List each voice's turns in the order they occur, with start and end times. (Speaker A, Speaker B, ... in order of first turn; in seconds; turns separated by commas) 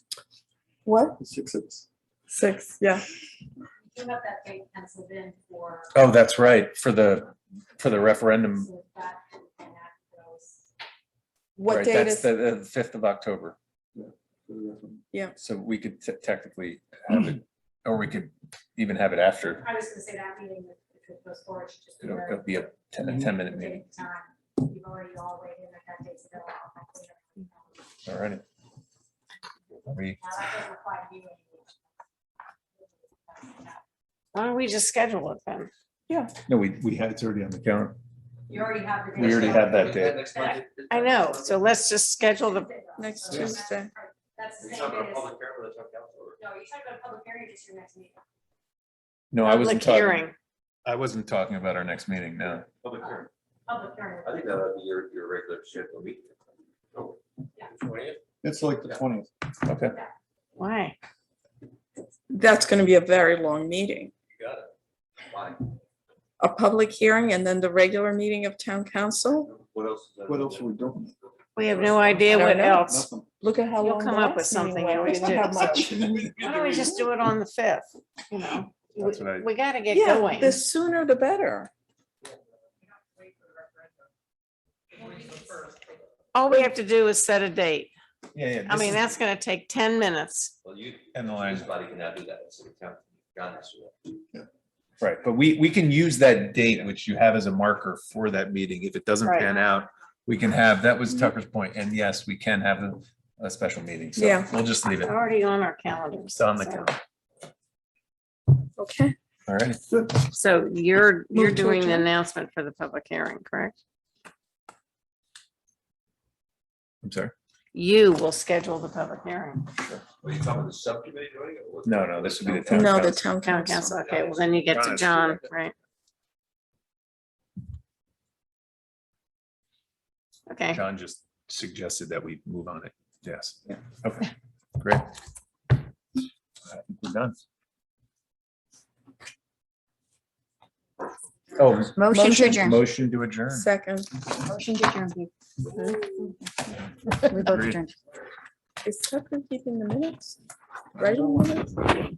Speaker A: 0.8-1.2, Speaker B: 1.2-1.9, Speaker A: 2.3-3.0, Speaker C: 3.9-6.0, Speaker D: 5.9-8.7, Speaker C: 8.4-10.7, Speaker A: 11.6-12.3, Speaker D: 11.7-13.6, Speaker B: 14.0-15.0, Speaker D: 15.4-19.6, Speaker C: 19.5-27.8, Speaker D: 22.0-23.8, Speaker D: 28.1-28.4, Speaker D: 29.9-30.2, Speaker C: 30.2-31.7, Speaker C: 32.8-33.8, Speaker E: 34.3-35.7, Speaker D: 36.5-38.0, Speaker C: 38.5-40.5, Speaker D: 39.1-40.3, Speaker F: 39.2-41.6, Speaker E: 40.4-42.7, Speaker C: 42.3-45.3, Speaker A: 43.0-43.9, Speaker F: 44.6-46.4, Speaker C: 46.4-48.2, Speaker D: 49.3-50.2, Speaker E: 49.4-50.4, Speaker D: 50.9-52.7, Speaker F: 52.8-53.3, Speaker C: 53.0-54.7, Speaker F: 54.2-56.3, Speaker F: 57.7-58.2, Speaker B: 58.4-59.3, Speaker D: 59.7-60.0, Speaker E: 60.6-61.0, Speaker A: 62.3-64.1, Speaker F: 64.3-64.7, Speaker F: 65.3-65.8, Speaker A: 66.4-69.5, Speaker F: 69.5-70.8, Speaker B: 70.3-71.2, Speaker E: 71.6-73.1, Speaker B: 71.8-73.3, Speaker A: 72.3-72.9, Speaker A: 73.4-76.3, Speaker E: 73.8-75.6, Speaker B: 75.5-76.5, Speaker F: 76.2-77.0, Speaker E: 76.4-80.6, Speaker D: 79.0-79.5, Speaker A: 79.9-81.7, Speaker E: 86.3-87.9, Speaker D: 88.3-89.1, Speaker E: 88.7-90.5, Speaker F: 90.6-94.1, Speaker D: 91.1-91.7, Speaker D: 95.0-105.2, Speaker F: 96.6-97.0, Speaker E: 99.2-99.5, Speaker A: 104.2-104.5, Speaker E: 105.0-106.9, Speaker D: 106.2-107.0, Speaker A: 108.8-109.2, Speaker D: 109.5-109.8, Speaker E: 110.2-113.8, Speaker A: 111.3-112.1, Speaker D: 117.0-117.3, Speaker E: 117.7-119.7, Speaker D: 119.8-120.0, Speaker F: 120.2-122.9, Speaker D: 121.8-123.3, Speaker A: 122.7-124.0, Speaker E: 123.4-125.8, Speaker F: 124.0-125.0, Speaker D: 124.7-125.4, Speaker E: 130.5-130.8, Speaker D: 130.7-135.1, Speaker D: 136.7-137.4, Speaker D: 141.6-143.7, Speaker G: 142.0-142.8, Speaker A: 142.1-142.6, Speaker A: 143.5-144.1, Speaker G: 144.3-145.3, Speaker G: 147.2-147.9, Speaker D: 147.3-147.8, Speaker A: 148.8-150.4, Speaker A: 151.0-151.8, Speaker D: 151.0-151.4